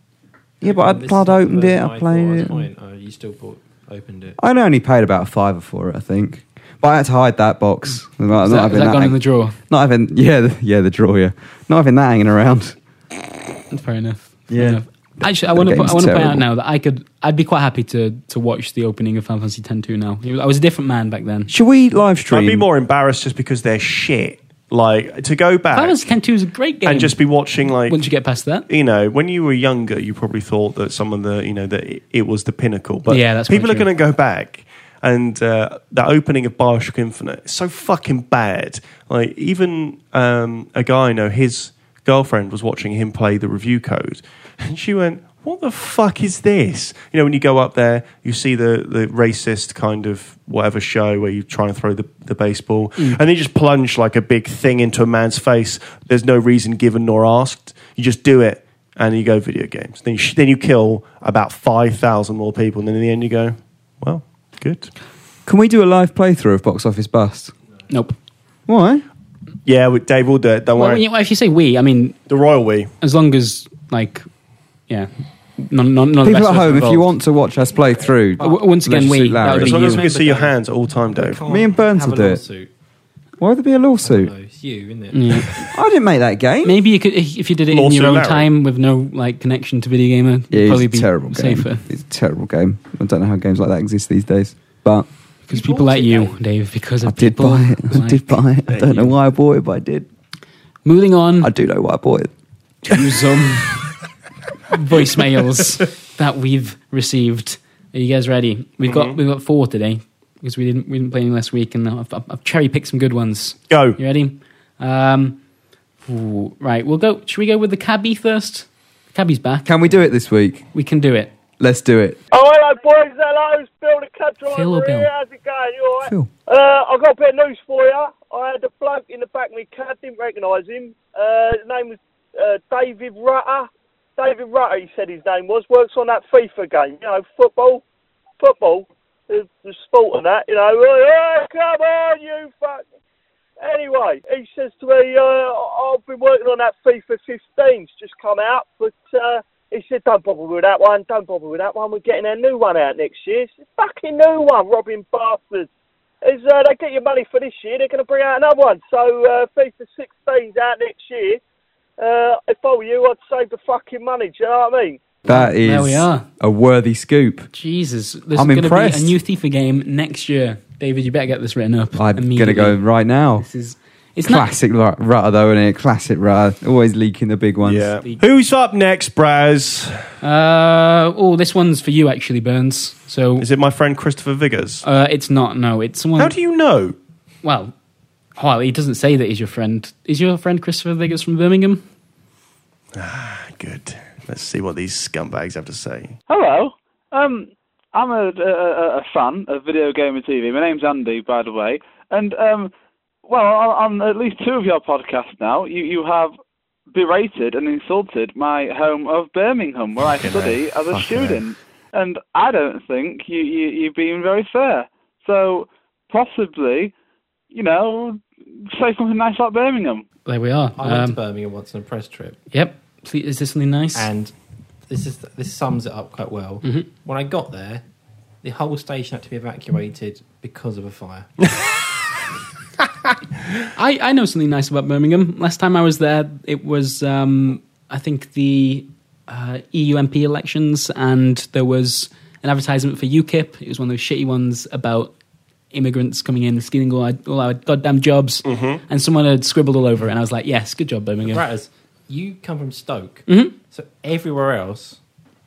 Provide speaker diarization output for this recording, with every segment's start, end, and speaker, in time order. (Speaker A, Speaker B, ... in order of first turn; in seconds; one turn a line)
Speaker A: 0.6-2.7
Speaker B: 0.6-4.4
Speaker A: 4.4-12.8
Speaker C: 8.3-9.6
Speaker C: 13.7-21.5
Speaker A: 14.5-16.4
Speaker A: 21.5-22.7
Speaker D: 22.3-26.0
Speaker C: 25.7-27.2
Speaker D: 26.9-28.0
Speaker C: 27.9-28.7
Speaker D: 28.7-64.9
Speaker C: 33.1-33.9
Speaker A: 65.5-67.5
Speaker C: 67.9-68.2
Speaker A: 68.7-69.0
Speaker D: 69.7-71.0
Speaker C: 70.8-72.2
Speaker D: 72.3-72.9
Speaker C: 73.0-74.3
Speaker C: 74.9-77.1
Speaker A: 76.2-79.9
Speaker C: 78.4-80.0
Speaker D: 79.5-81.4
Speaker B: 79.7-80.6
Speaker B: 81.1-82.7
Speaker A: 81.5-82.4
Speaker A: 83.4-84.3
Speaker B: 84.0-85.7
Speaker C: 85.1-85.7
Speaker A: 85.6-86.8
Speaker C: 86.6-91.8
Speaker D: 87.7-88.5
Speaker A: 90.5-95.1
Speaker C: 95.5-99.0
Speaker B: 95.5-96.4
Speaker A: 97.0-100.1
Speaker C: 100.8-101.5
Speaker A: 101.4-102.3
Speaker C: 102.9-103.9
Speaker C: 104.7-115.4
Speaker D: 108.9-109.2
Speaker D: 113.7-114.0
Speaker C: 116.0-119.7
Speaker A: 119.7-120.7
Speaker C: 120.7-121.3
Speaker A: 121.6-122.2
Speaker E: 122.3-137.8
Speaker C: 124.5-125.1
Speaker A: 126.0-126.3
Speaker E: 138.4-142.8
Speaker E: 143.6-155.7
Speaker E: 156.2-161.4
Speaker E: 162.0-165.0
Speaker A: 165.2-167.5
Speaker C: 165.3-166.3
Speaker C: 167.5-172.8
Speaker A: 168.3-169.2
Speaker A: 172.0-173.5
Speaker C: 173.4-174.5
Speaker A: 174.2-177.9
Speaker D: 177.6-180.0
Speaker C: 180.2-183.5
Speaker D: 183.4-184.9
Speaker C: 184.8-186.3
Speaker D: 186.2-187.0
Speaker C: 187.4-187.7
Speaker C: 188.4-191.8
Speaker D: 192.9-196.2
Speaker F: 196.3-202.7
Speaker F: 203.2-206.3
Speaker F: 206.9-216.9
Speaker D: 210.0-211.4
Speaker F: 217.5-220.1
Speaker C: 220.3-221.2
Speaker B: 220.8-222.4
Speaker C: 222.5-224.1
Speaker B: 223.9-224.3
Speaker B: 224.9-227.8
Speaker B: 228.4-231.3
Speaker C: 233.8-245.1
Speaker C: 245.7-251.4
Speaker D: 248.4-248.8
Speaker B: 251.3-255.0
Speaker C: 253.3-253.6